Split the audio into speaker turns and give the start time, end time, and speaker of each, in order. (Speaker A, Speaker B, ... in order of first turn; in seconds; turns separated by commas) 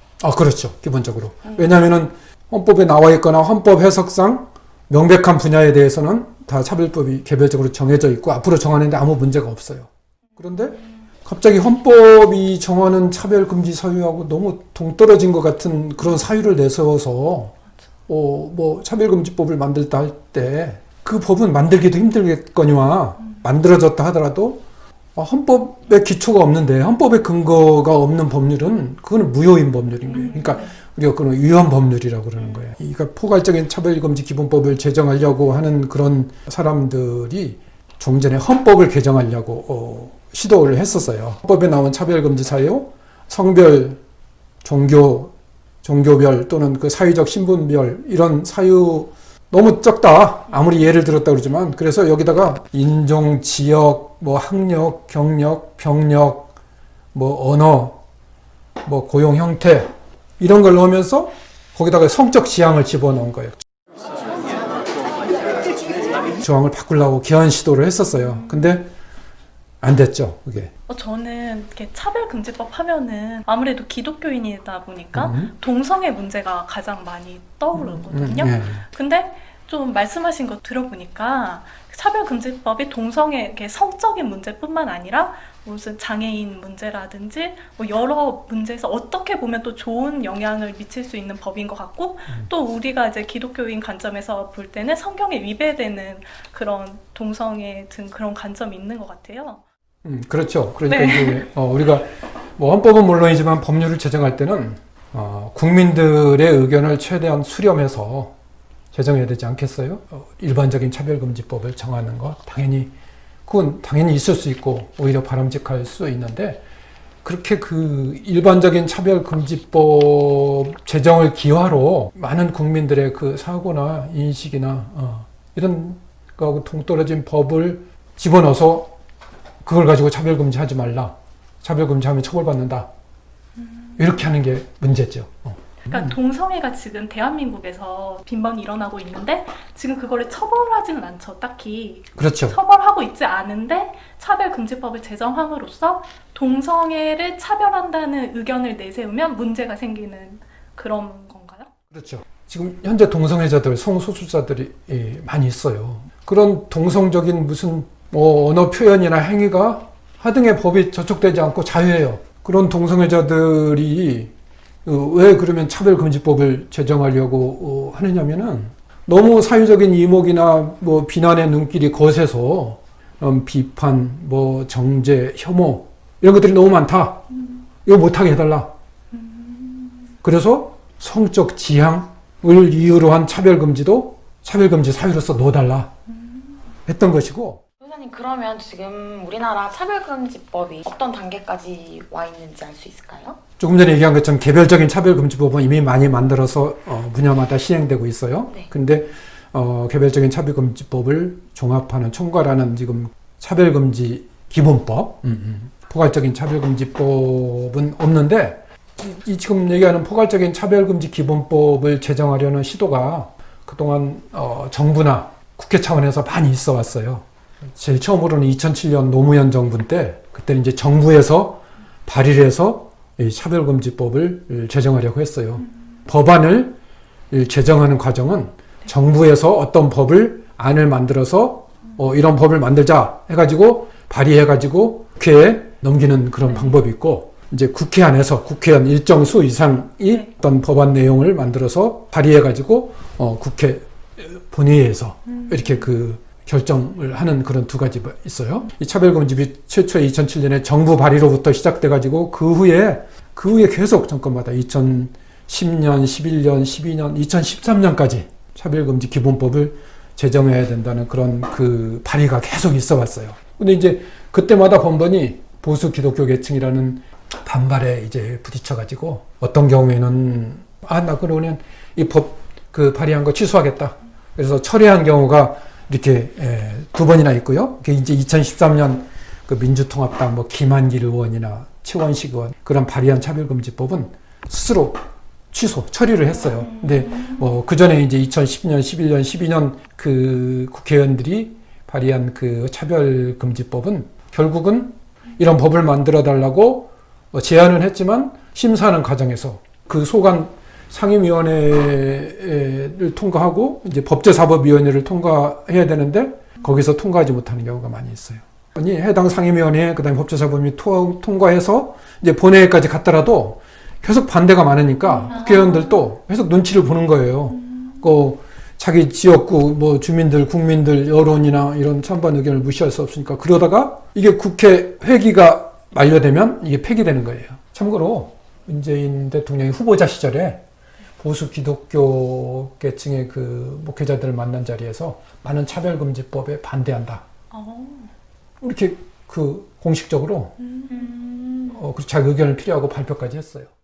Speaker A: 0.2-17.5, Speaker B: 1.4-1.7, Speaker A: 18.1-24.6, Speaker A: 25.1-44.0, Speaker C: 30.4-30.7, Speaker A: 44.6-45.3, Speaker A: 45.8-56.5, Speaker A: 57.1-58.0, Speaker A: 58.8-63.6, Speaker A: 66.4-68.9, Speaker A: 69.8-70.7, Speaker C: 70.9-99.6, Speaker A: 75.1-75.5, Speaker A: 77.8-78.8, Speaker A: 100.0-108.3, Speaker C: 100.9-101.5, Speaker A: 108.9-112.9, Speaker A: 113.5-116.6, Speaker A: 117.2-128.9, Speaker A: 129.6-132.9, Speaker C: 133.6-134.2, Speaker A: 134.0-136.2, Speaker C: 135.9-151.7, Speaker A: 142.2-142.6, Speaker A: 151.9-164.3, Speaker A: 164.8-177.3, Speaker A: 177.8-178.7, Speaker C: 179.1-180.1, Speaker A: 180.2-185.9, Speaker C: 186.1-186.6, Speaker A: 186.9-187.6, Speaker B: 187.8-193.4, Speaker A: 193.6-226.8, Speaker A: 227.3-330.6, Speaker C: 236.5-236.8, Speaker C: 245.3-245.8, Speaker B: 286.7-287.3, Speaker C: 315.2-316.1, Speaker C: 317.6-318.1, Speaker A: 331.2-337.2, Speaker C: 337.5-338.1, Speaker A: 338.6-340.5, Speaker C: 340.6-341.7, Speaker B: 340.9-341.4, Speaker A: 341.7-343.7